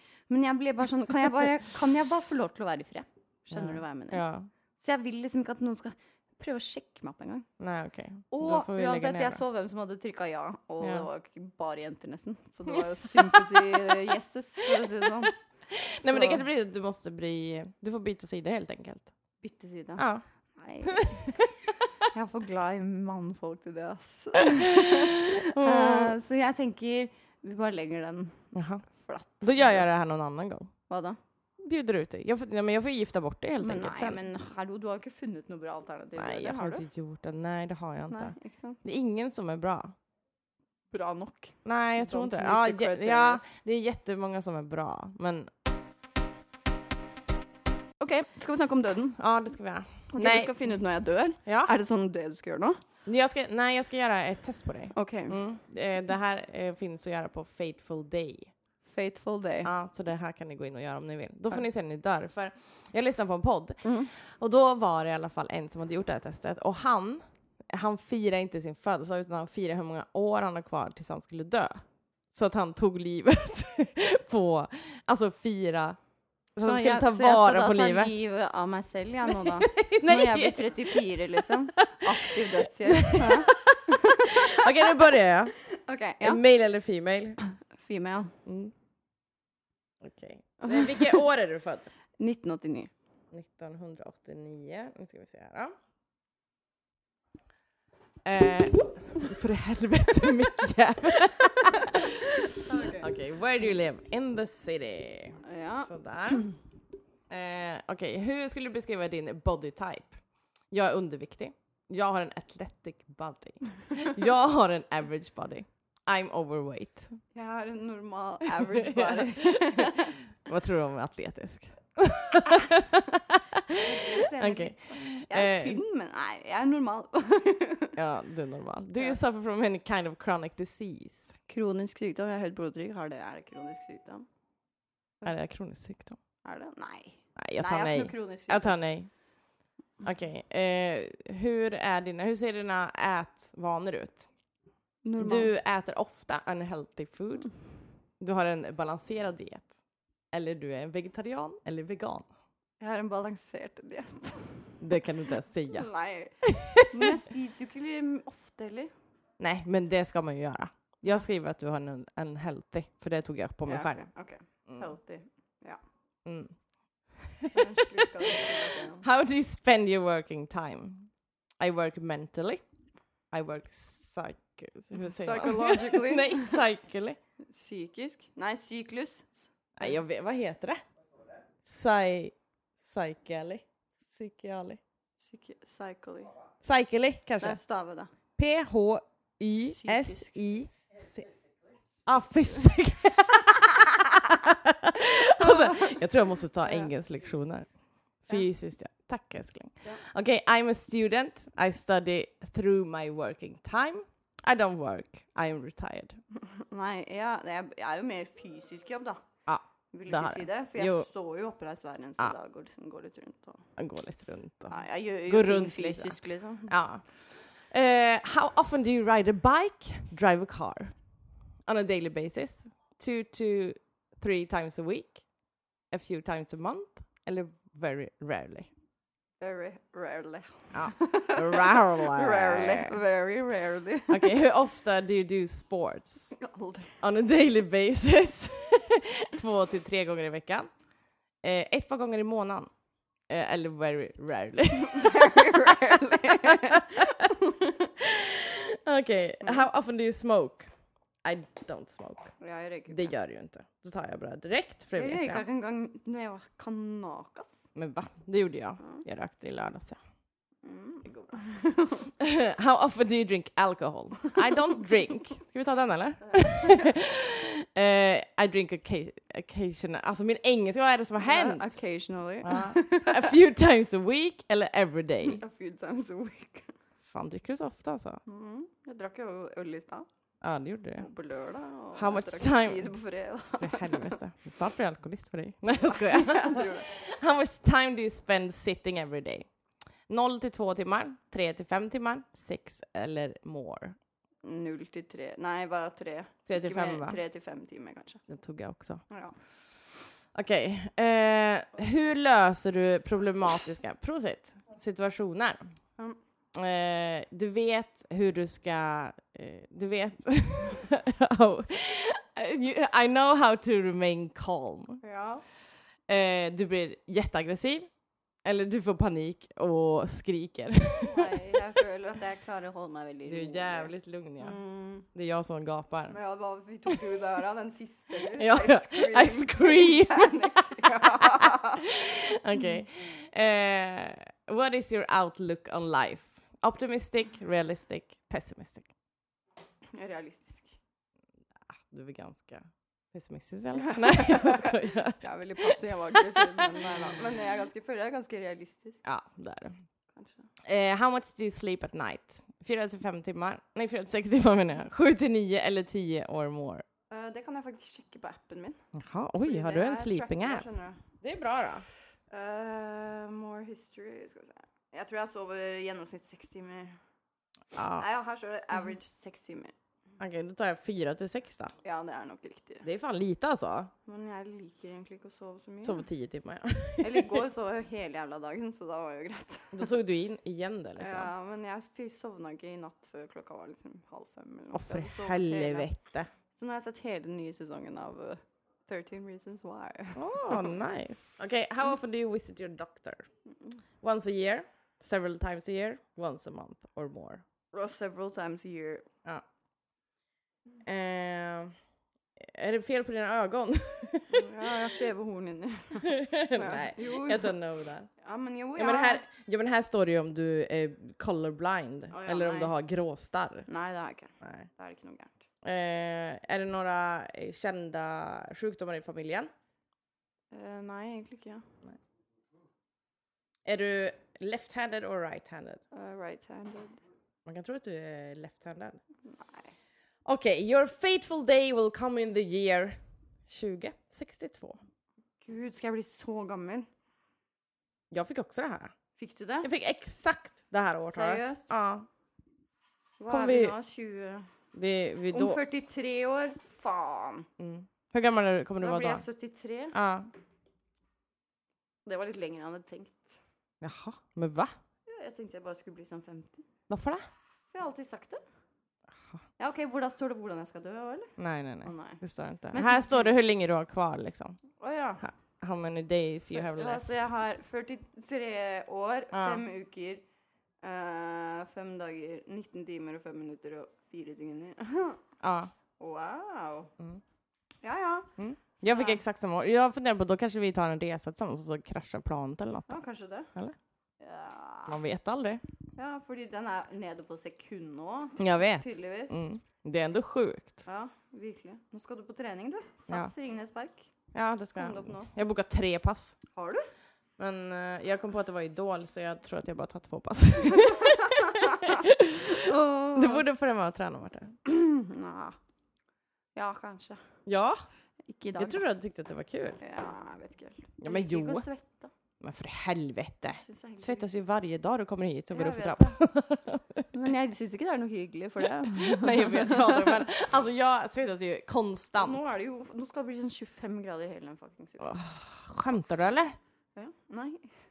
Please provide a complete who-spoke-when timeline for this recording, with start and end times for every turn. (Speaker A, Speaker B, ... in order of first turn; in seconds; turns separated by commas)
Speaker A: 0.3-4.2, Speaker B: 3.5-4.5, Speaker A: 4.8-7.5, Speaker B: 7.6-9.4, Speaker A: 8.3-15.3, Speaker B: 10.8-11.1, Speaker B: 12.8-13.9, Speaker B: 15.7-19.1, Speaker A: 16.0-16.4, Speaker A: 19.4-20.1, Speaker B: 20.0-20.2, Speaker A: 20.6-21.4, Speaker B: 20.8-21.7, Speaker A: 22.1-29.8, Speaker B: 24.5-26.1, Speaker B: 28.5-28.9, Speaker B: 29.4-30.7, Speaker A: 30.9-31.2, Speaker B: 31.6-34.2, Speaker A: 33.6-36.8, Speaker B: 36.1-39.9, Speaker A: 38.1-38.8, Speaker A: 40.9-43.4, Speaker B: 41.6-45.5, Speaker A: 48.0-49.2, Speaker B: 49.2-50.7, Speaker A: 50.1-52.8, Speaker B: 51.5-51.7, Speaker B: 53.0-58.5, Speaker A: 54.9-55.4, Speaker A: 58.8-59.7, Speaker B: 59.6-76.0, Speaker A: 63.8-64.1, Speaker B: 76.5-78.1, Speaker A: 76.6-85.0, Speaker B: 79.3-85.6, Speaker A: 85.7-86.4, Speaker B: 86.2-87.4, Speaker A: 87.7-88.3, Speaker B: 88.5-88.7, Speaker B: 90.0-91.9, Speaker A: 90.6-91.2, Speaker A: 92.2-92.9, Speaker B: 93.3-95.8, Speaker B: 98.2-106.5, Speaker A: 102.5-103.0, Speaker A: 105.4-106.5, Speaker B: 107.3-110.2, Speaker B: 110.7-117.2, Speaker A: 117.3-120.2, Speaker B: 118.5-125.8, Speaker A: 123.7-128.0, Speaker B: 128.0-131.3, Speaker A: 131.5-134.2, Speaker B: 135.2-136.2, Speaker A: 136.4-138.8, Speaker B: 137.3-139.1, Speaker B: 140.0-144.2, Speaker A: 145.0-145.5, Speaker B: 145.2-147.5, Speaker B: 148.2-149.7, Speaker B: 150.3-152.2, Speaker A: 152.8-154.8, Speaker B: 154.8-155.9, Speaker A: 155.7-158.9, Speaker B: 156.4-156.8, Speaker B: 159.4-164.0, Speaker A: 163.7-165.8, Speaker B: 166.2-172.6, Speaker A: 167.5-169.1, Speaker B: 173.3-177.2, Speaker A: 174.9-176.6, Speaker A: 177.5-179.9, Speaker B: 179.8-180.8, Speaker B: 181.6-184.8, Speaker A: 185.2-186.3, Speaker B: 186.6-187.6, Speaker A: 187.4-188.1, Speaker B: 188.3-190.7, Speaker A: 189.7-190.3, Speaker B: 192.1-197.7, Speaker A: 195.4-196.0, Speaker A: 196.6-196.9, Speaker B: 198.2-206.2, Speaker A: 206.4-209.2, Speaker B: 209.4-211.1, Speaker A: 209.9-213.6, Speaker B: 213.8-220.9, Speaker A: 214.7-216.7, Speaker B: 221.7-225.2, Speaker B: 225.9-228.7, Speaker A: 229.4-234.3, Speaker B: 230.7-233.0, Speaker B: 234.1-236.3, Speaker A: 236.3-237.0, Speaker B: 237.0-240.7, Speaker B: 241.4-242.7, Speaker B: 243.3-247.2, Speaker A: 244.7-247.9, Speaker B: 248.0-250.7, Speaker B: 251.2-252.3, Speaker A: 252.4-253.1, Speaker B: 252.9-255.4, Speaker A: 254.9-257.7, Speaker B: 257.7-260.0, Speaker A: 260.6-262.1, Speaker B: 262.2-271.7, Speaker A: 266.2-266.9, Speaker A: 271.2-273.3, Speaker B: 272.4-275.4, Speaker A: 275.2-276.7, Speaker B: 277.0-278.2, Speaker A: 278.2-280.1, Speaker B: 280.4-281.1, Speaker A: 281.0-284.2, Speaker B: 281.9-282.9, Speaker B: 283.6-289.5, Speaker A: 285.8-286.9, Speaker B: 290.1-293.9, Speaker A: 294.4-298.2, Speaker B: 296.5-297.2, Speaker B: 298.3-299.0, Speaker A: 299.1-299.4, Speaker B: 300.3-305.6, Speaker B: 306.5-315.0, Speaker A: 315.0-315.4, Speaker B: 316.1-317.9, Speaker B: 318.4-321.6, Speaker A: 321.0-325.1, Speaker B: 323.3-324.6, Speaker B: 325.1-326.1, Speaker A: 326.1-331.9, Speaker B: 328.2-338.9, Speaker A: 339.9-340.8, Speaker B: 341.7-346.8, Speaker A: 343.7-349.0, Speaker B: 349.0-349.8, Speaker A: 350.1-350.5, Speaker B: 350.6-356.8, Speaker A: 357.1-358.9, Speaker B: 358.9-360.6, Speaker A: 359.4-361.0, Speaker B: 361.2-361.9, Speaker A: 362.3-366.9, Speaker B: 367.7-368.1, Speaker A: 367.9-369.7, Speaker B: 370.2-371.7, Speaker A: 371.8-372.9, Speaker B: 372.8-373.9, Speaker A: 374.1-376.1, Speaker B: 375.8-377.4, Speaker A: 377.0-379.9, Speaker B: 379.7-381.3, Speaker A: 381.0-385.9, Speaker B: 384.7-386.3, Speaker A: 386.5-390.8, Speaker B: 390.1-393.3, Speaker B: 394.0-397.4, Speaker A: 397.7-399.1, Speaker B: 400.8-401.7, Speaker B: 402.4-404.5, Speaker A: 404.3-407.6, Speaker B: 406.0-408.1, Speaker A: 408.2-409.2, Speaker B: 408.8-413.7, Speaker A: 412.1-412.7, Speaker A: 413.7-415.4, Speaker B: 414.4-414.7, Speaker B: 415.6-419.5, Speaker A: 420.5-421.6, Speaker B: 423.6-425.8, Speaker A: 425.9-427.0, Speaker B: 427.4-429.0, Speaker A: 429.3-429.7, Speaker B: 430.2-434.8, Speaker A: 435.4-436.9, Speaker B: 438.1-438.9, Speaker A: 439.2-439.7, Speaker B: 439.6-442.1, Speaker A: 441.1-441.7, Speaker A: 443.2-444.5, Speaker B: 443.3-443.7, Speaker B: 444.7-445.6, Speaker A: 445.3-447.5, Speaker B: 447.6-449.2, Speaker A: 448.8-449.9, Speaker B: 449.9-450.3, Speaker A: 452.1-453.4, Speaker B: 453.8-454.7, Speaker A: 455.1-456.6, Speaker B: 456.9-457.2, Speaker A: 457.7-458.4, Speaker A: 459.6-463.3, Speaker B: 461.4-464.6, Speaker A: 464.8-465.2, Speaker B: 465.2-467.0, Speaker A: 466.5-470.2, Speaker B: 469.3-469.6, Speaker A: 470.8-475.2, Speaker B: 475.4-475.7, Speaker A: 476.0-476.9, Speaker A: 477.8-479.2, Speaker B: 478.4-483.0, Speaker A: 482.9-483.5, Speaker A: 484.2-485.0, Speaker B: 484.9-485.6, Speaker A: 485.9-489.4, Speaker B: 488.4-490.8, Speaker A: 490.9-494.1, Speaker B: 494.3-496.4, Speaker A: 494.8-495.3, Speaker A: 496.5-496.9, Speaker B: 497.4-504.6, Speaker A: 500.8-503.4, Speaker A: 504.6-505.6, Speaker A: 506.5-507.2, Speaker B: 507.4-507.8, Speaker A: 508.3-508.8, Speaker B: 508.5-509.8, Speaker A: 509.8-512.1, Speaker B: 511.0-511.6, Speaker B: 512.4-517.0, Speaker A: 513.5-514.3, Speaker A: 515.5-516.2, Speaker A: 517.1-520.2, Speaker B: 518.8-522.4, Speaker A: 522.2-525.1, Speaker B: 525.0-526.6, Speaker A: 527.0-527.7